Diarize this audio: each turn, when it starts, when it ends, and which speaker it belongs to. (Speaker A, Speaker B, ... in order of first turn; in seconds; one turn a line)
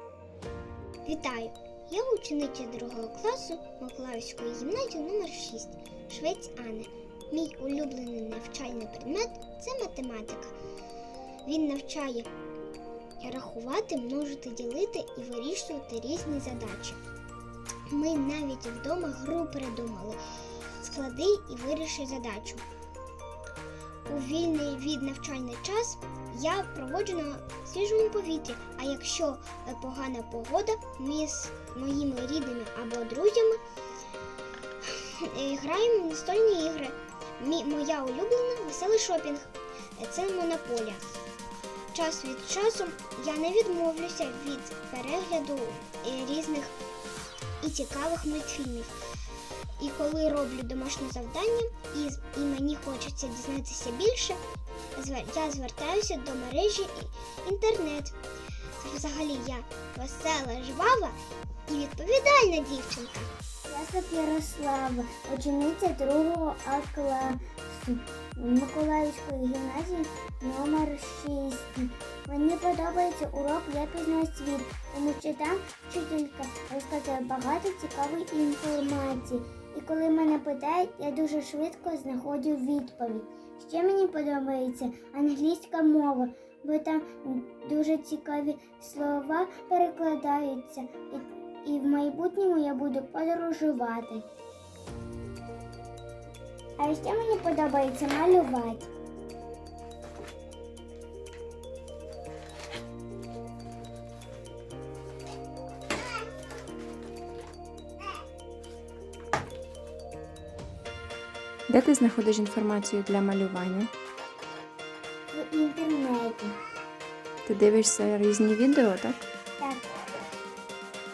Speaker A: 1.1-10.6
Speaker A: 11.4-12.3
Speaker A: 13.2-17.0
Speaker A: 17.9-20.2
Speaker A: 20.8-22.7
Speaker A: 24.1-33.6
Speaker A: 34.8-41.1
Speaker A: 41.9-46.8
Speaker A: 47.6-48.9
Speaker A: 49.8-54.4
Speaker A: 55.0-58.2
Speaker A: 58.8-63.3
Speaker B: 63.7-94.3
Speaker B: 96.8-98.9
Speaker C: 111.7-113.9
Speaker B: 115.3-116.6
Speaker C: 117.5-119.2
Speaker B: 119.6-119.9